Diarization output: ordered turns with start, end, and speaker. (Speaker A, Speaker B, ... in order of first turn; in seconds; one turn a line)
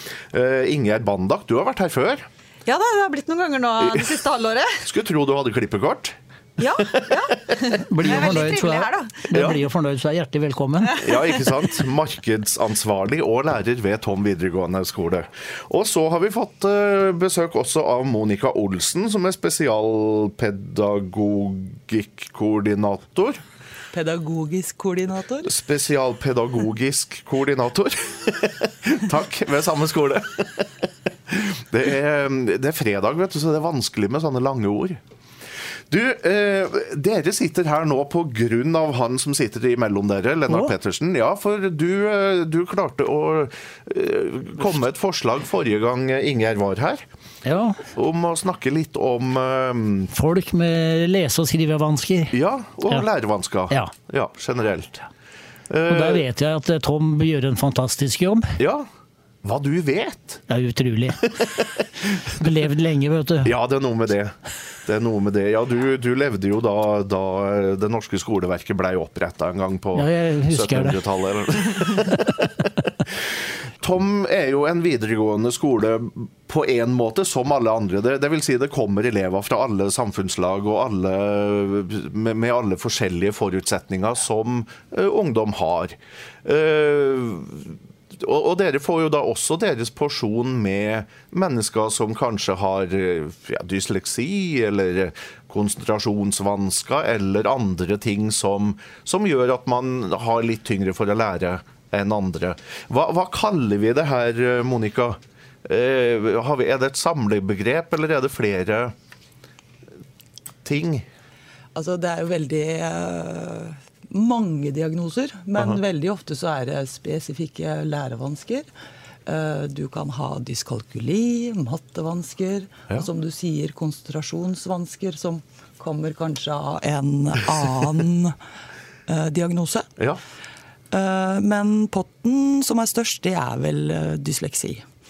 Speaker A: 0.3-2.3
Speaker B: 2.7-4.8
Speaker A: 4.8-6.2
Speaker B: 6.6-9.6
Speaker C: 7.9-11.1
Speaker A: 9.3-9.6
Speaker B: 10.8-11.8
Speaker A: 11.0-23.4
Speaker D: 23.9-25.5
Speaker A: 25.4-35.0
Speaker A: 35.9-47.0
Speaker C: 47.4-47.9
Speaker A: 47.9-50.1
Speaker C: 50.1-52.3
Speaker A: 52.3-55.0
Speaker A: 55.7-56.2
Speaker C: 55.9-58.5
Speaker A: 58.6-58.9
Speaker A: 59.4-60.4
Speaker C: 60.5-61.6
Speaker C: 62.2-63.5
Speaker A: 63.4-72.5
Speaker C: 70.0-71.0
Speaker A: 73.8-108.9
Speaker A: 110.6-111.1
Speaker D: 111.8-118.7
Speaker D: 119.3-128.4
Speaker D: 129.1-129.9
Speaker D: 130.9-134.8